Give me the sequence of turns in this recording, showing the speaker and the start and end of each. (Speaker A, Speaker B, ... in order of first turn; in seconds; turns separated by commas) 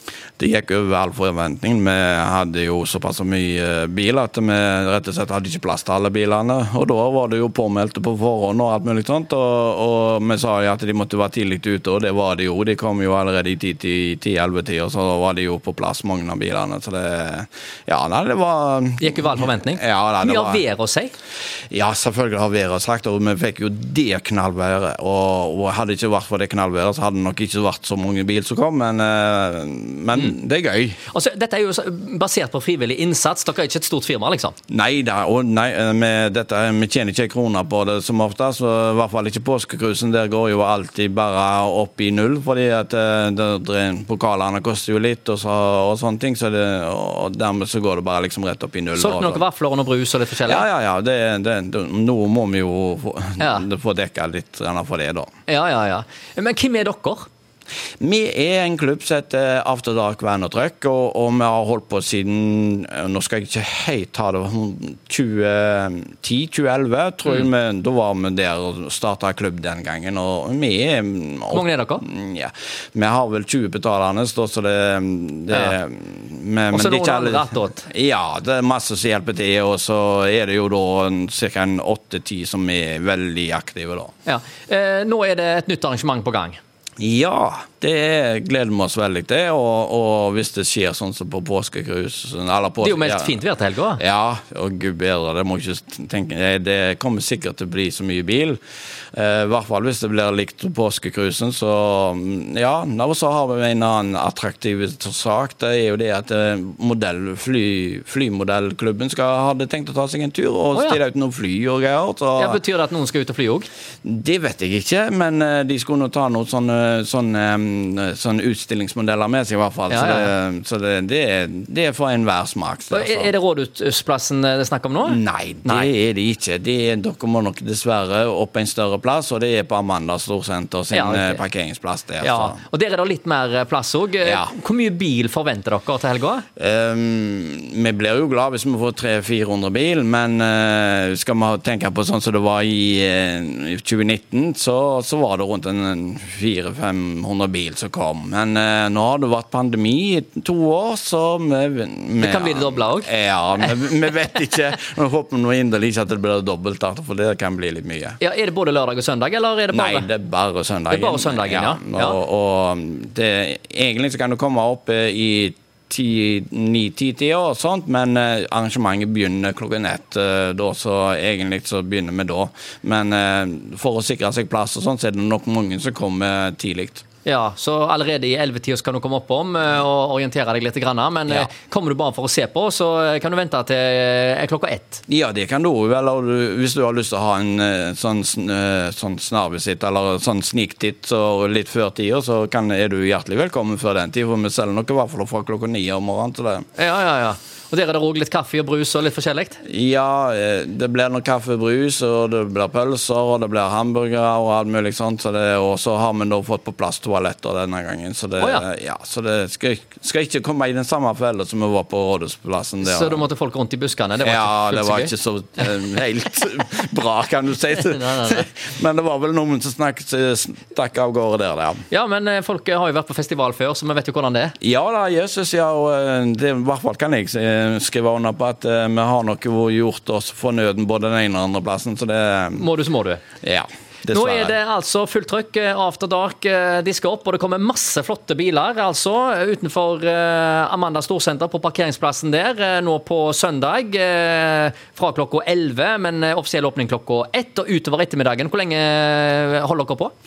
Speaker A: 0.4-20.6, Speaker B: 19.0-21.1, Speaker A: 21.7-31.0, Speaker B: 31.1-34.5, Speaker A: 34.7-49.4, Speaker B: 49.0-50.7, Speaker A: 50.5-55.3, Speaker B: 53.4-53.6, Speaker B: 55.5-57.2, Speaker A: 58.0-84.1, Speaker B: 71.5-72.0, Speaker B: 76.7-77.9, Speaker B: 84.3-86.6, Speaker A: 87.0-93.4, Speaker B: 92.8-94.0, Speaker A: 94.0-98.6, Speaker A: 99.1-112.6, Speaker B: 110.7-111.0, Speaker B: 112.4-113.7, Speaker A: 114.0-123.3, Speaker B: 119.9-120.3, Speaker B: 122.9-125.9, Speaker A: 125.1-132.6, Speaker B: 130.9-131.4, Speaker B: 132.2-136.5, Speaker A: 134.2-134.5, Speaker A: 136.6-158.2, Speaker B: 152.2-153.1, Speaker B: 158.2-160.1, Speaker A: 159.7-177.1, Speaker B: 160.9-162.2, Speaker B: 177.2-185.0, Speaker A: 185.1-196.7, Speaker B: 196.8-199.6, Speaker A: 199.6-213.2, Speaker B: 208.4-208.7, Speaker B: 212.8-215.1, Speaker A: 214.2-221.8, Speaker B: 217.9-218.5, Speaker B: 221.9-224.6, Speaker A: 224.6-232.7, Speaker B: 232.6-233.2, Speaker A: 233.4-234.6, Speaker B: 234.1-250.1